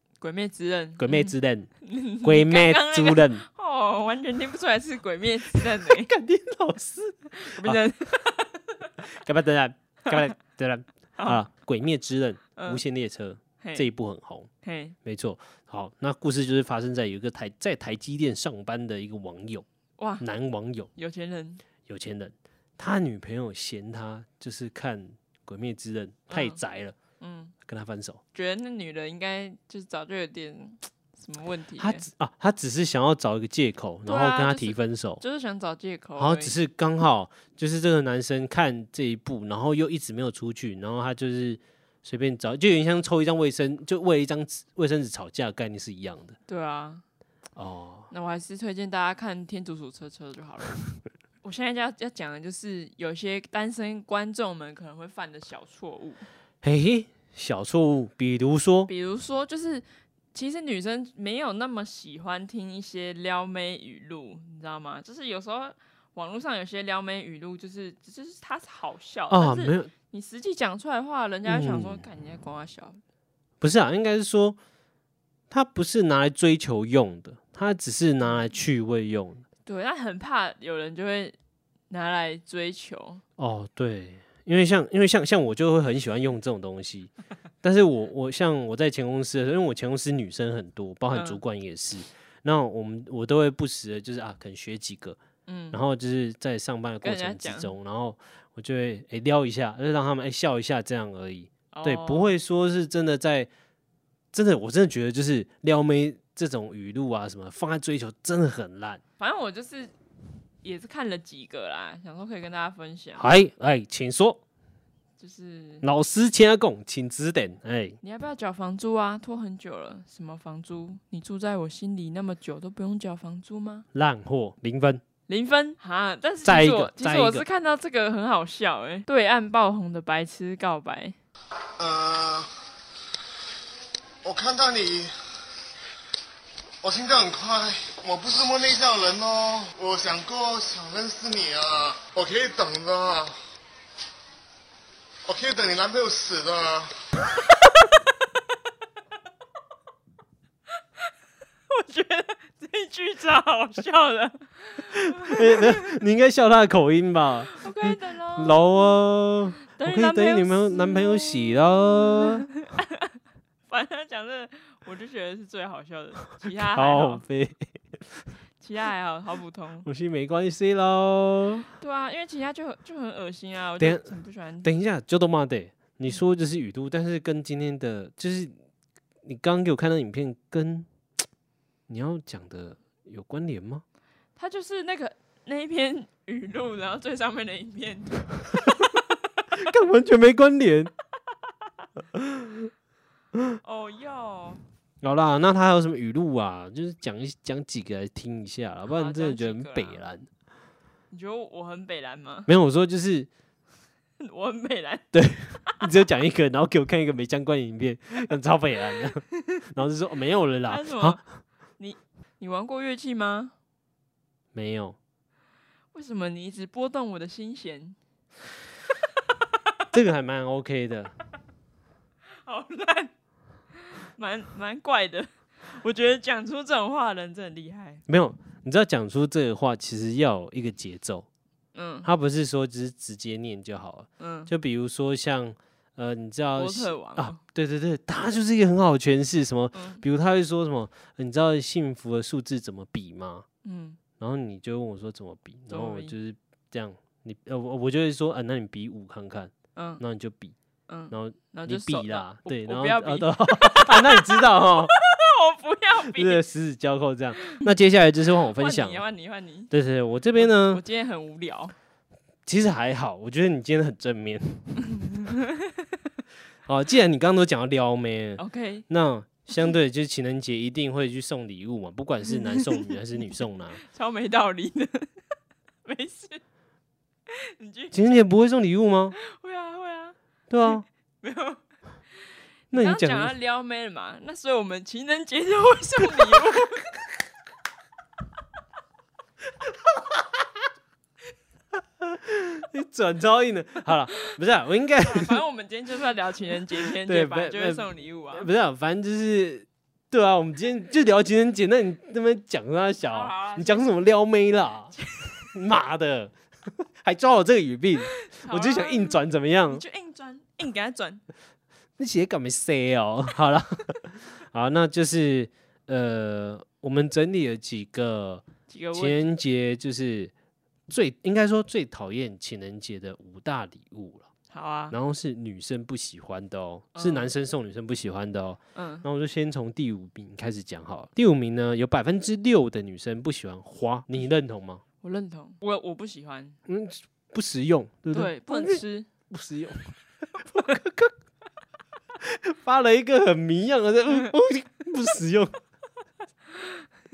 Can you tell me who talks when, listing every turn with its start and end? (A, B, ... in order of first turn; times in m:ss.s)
0:00.2-0:06.1 A
0:01.0-0:01.7 B
0:02.2-0:03.4 B
0:05.5-0:07.8 B
0:07.4-0:08.8 A
0:09.0-0:14.5 B
0:12.6-0:12.8 A
0:13.6-0:13.8 A
0:14.6-0:15.0 A
0:15.0-0:19.6 B
0:20.0-0:20.2 A
0:20.2-0:20.9 B
0:21.0-0:21.6 A
0:21.8-0:27.0 B
0:26.3-0:26.6 A
0:27.2-0:27.5 A
0:27.6-0:28.2 B
0:28.3-0:32.0 A
0:31.8-0:35.2 B
0:34.0-0:36.6 A
0:36.2-0:46.4 B
0:46.5-0:47.0 A
0:47.6-0:48.1 B
0:48.1-0:50.8 A
0:51.4-0:56.2 A
0:56.6-0:58.9 B
0:58.9-1:13.0 A
1:09.3-1:09.9 B
1:11.4-1:12.0 B
1:13.6-1:14.6 B
1:15.5-1:19.4 B
1:19.6-1:21.3 A
1:21.9-1:23.2 A
1:23.4-1:27.1 B
1:27.6-1:35.2 B
1:31.1-1:31.4 A
1:35.5-1:35.8 A
1:35.7-1:43.5 B
1:37.0-1:37.7 A
1:41.7-1:42.3 A
1:44.3-1:49.0 B
1:49.2-1:49.9 A
1:50.6-1:53.2 A
1:53.2-1:54.4 B
1:55.2-1:55.8 A
1:55.8-1:58.0 B
1:58.0-2:03.8 A
2:03.9-2:05.0 B
2:05.3-2:11.2 A
2:06.4-2:07.4 B
2:11.8-2:12.5 C
2:14.2-2:15.1 C
2:16.8-2:23.4 C
2:25.2-2:27.0 C
2:31.7-2:35.8 A
2:34.9-2:42.5 B
2:37.5-2:38.6 A
2:39.7-2:43.2 A
2:43.7-2:47.2 A
2:46.5-2:48.0 B
2:48.6-2:49.9 A
2:49.8-2:51.7 B
2:51.7-2:54.7 A
2:53.8-2:54.1 B
2:54.6-2:58.5 B
2:59.2-3:00.9 B
3:01.9-3:03.8 B
3:04.4-3:09.0 A
3:09.5-3:10.9 B
3:12.1-3:12.7 B
3:13.6-3:14.6 A
3:15.0-3:20.3 B
3:18.8-3:20.0 A
3:21.1-3:22.5 A
3:22.5-3:23.3 B
3:24.2-3:25.0 A
3:25.1-3:31.2 B
3:30.6-3:31.2 A
3:31.8-3:33.5 A
3:34.5-3:35.0 B
3:35.9-3:38.0 A
3:39.9-3:41.1 B
3:42.4-3:43.1 A
3:43.7-3:48.0 A
3:48.1-3:51.3 B
3:51.7-3:52.1 A
3:52.0-4:03.4 B
3:54.2-3:54.5 A
3:56.6-3:57.4 A
3:59.7-4:00.0 A
4:03.6-4:04.0 A
4:04.2-4:10.6 B
4:05.7-4:06.1 A
4:09.7-4:10.0 A
4:10.9-4:16.4 A
4:11.1-4:14.9 B
4:16.1-4:19.0 B
4:18.4-4:19.7 A
4:19.7-4:20.8 B
4:20.4-4:21.7 A
4:22.4-4:25.1 B
4:25.0-4:26.0 A
4:26.6-4:33.8 B
4:28.4-4:28.8 A
4:32.3-4:35.1 A
4:35.8-4:36.4 A
4:37.3-4:38.2 A
4:37.9-4:39.2 B
4:39.2-4:40.2 A
4:40.5-4:40.8 B
4:40.7-4:41.6 A
4:42.7-4:43.3 B
4:42.7-4:46.9 A
4:52.0-4:55.4 B
4:55.0-4:58.5 A
4:56.8-5:05.0 B
5:03.1-5:03.9 A
5:05.5-5:06.3 B
5:07.0-5:09.8 B
5:08.2-5:09.2 A
5:09.7-5:11.2 A
5:12.0-5:20.3 B
5:18.7-5:19.3 A
5:20.9-5:24.3 B
5:24.5-5:25.0 A
5:24.9-5:34.8 B
5:26.9-5:27.3 A
5:28.7-5:29.0 A
5:35.0-5:36.6 A
5:36.7-5:41.1 B
5:38.1-5:39.1 A
5:42.2-5:45.6 B
5:46.5-5:46.8 A